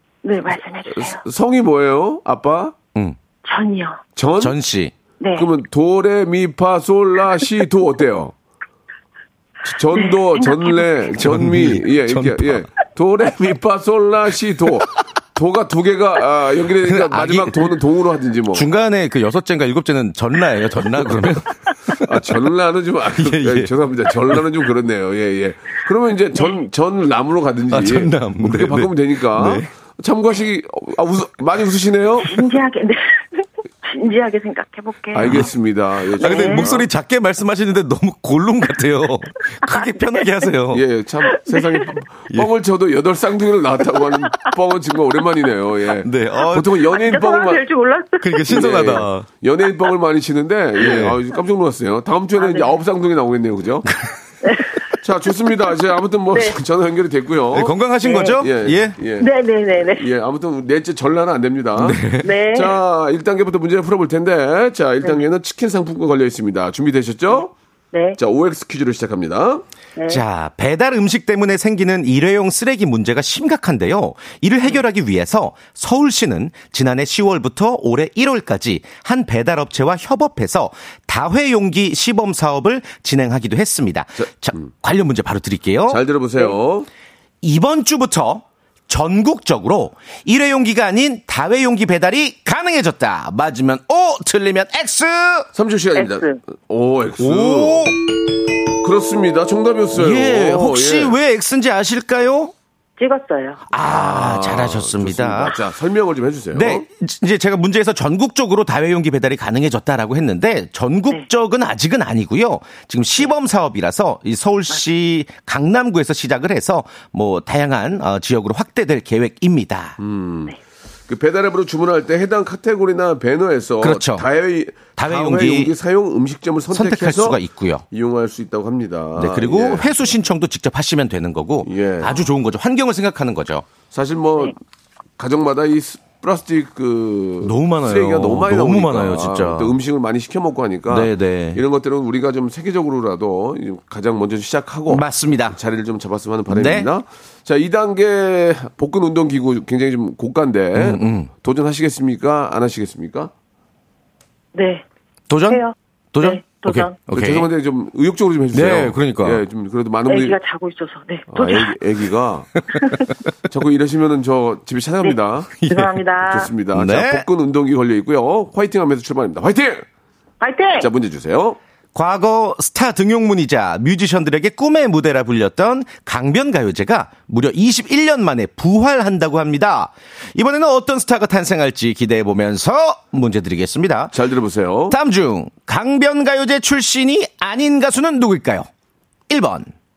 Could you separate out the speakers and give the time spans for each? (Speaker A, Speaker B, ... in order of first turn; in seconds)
Speaker A: 0.2-1.2, 3.4-4.0, 5.2-5.5, 9.9-11.1, 32.2-35.5, 36.2-36.6, 41.5-41.8, 46.9-48.7, 52.4-52.7, 54.4-54.8, 58.0-58.4, 59.2-60.1, 62.2-62.8, 67.9-68.2, 70.0-70.2, 96.0-96.4, 103.0-103.6, 154.6-154.8, 155.5-157.0, 160.1-161.8, 165.7-166.5, 170.4-170.9
Speaker B: 0.9-2.8, 4.2-4.6, 5.4-8.3, 9.6-18.7, 22.0-32.4, 35.1-36.9, 40.7-47.6, 48.5-53.9, 55.0-57.8, 58.4-59.3, 60.0-67.5, 68.2-69.6, 84.2-84.7, 85.9-86.9, 95.5-97.9, 98.8-101.2, 103.8-106.8, 120.0-120.5, 121.1-127.4, 127.9-129.9, 131.6-132.1, 133.9-134.6, 135.2-153.3, 157.1-160.4, 161.3-162.5, 163.5-165.5, 166.3-169.8, 170.8-171.6, 184.1-185.0
Speaker C: 4.4-4.9, 11.2-12.7, 16.8-17.8, 18.5-22.1, 23.2-24.4, 27.7-29.7, 35.2-35.5, 36.2-40.8, 46.0-46.8, 48.2-49.3, 50.8-51.2, 53.9-54.1, 57.5-59.0, 61.8-62.3, 70.1-86.0, 87.4-95.5, 97.2-98.0, 99.9-102.5, 103.7-105.6, 106.5-120.0, 123.8-124.3, 125.0-125.7, 126.7-127.8, 129.1-133.7, 137.4-139.7, 140.9-141.6, 144.9-145.6, 146.5-146.9, 150.8-151.3, 155.3-155.6, 156.1-157.5, 158.5-159.4, 165.6-166.0, 166.7-167.3, 171.9-184.2, 184.9-188.7, 189.3-189.7